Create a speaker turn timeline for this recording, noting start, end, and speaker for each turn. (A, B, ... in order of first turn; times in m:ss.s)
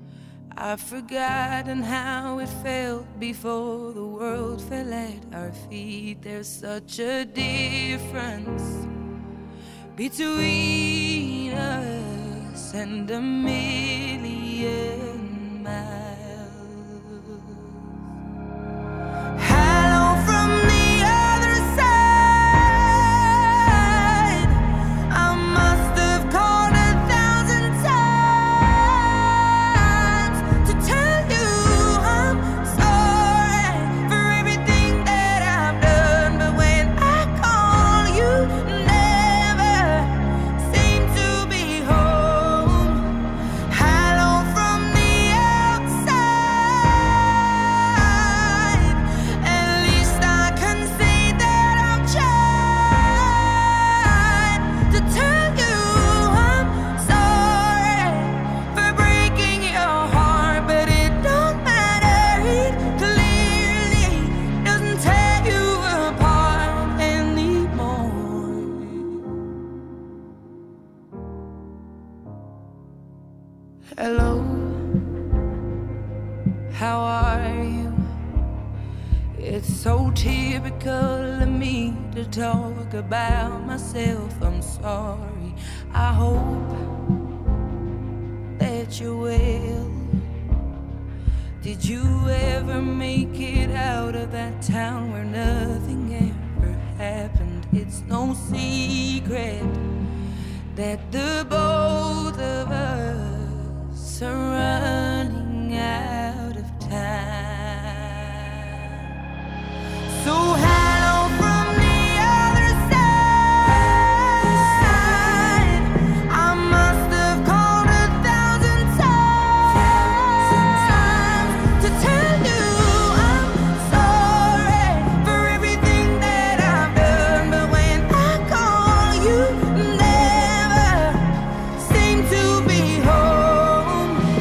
0:00.5-0:08.9 A
0:09.9-0:17.6 A
0:19.3-0:43.1 A
0:43.7-1:09.1 A
1:13.9-1:14.8 A
1:16.7-1:18.0 A
1:19.3-1:26.8 A
1:28.6-1:30.2 A
1:31.6-1:39.8 A
1:40.7-1:49.0 A
1:50.0-2:14.2 A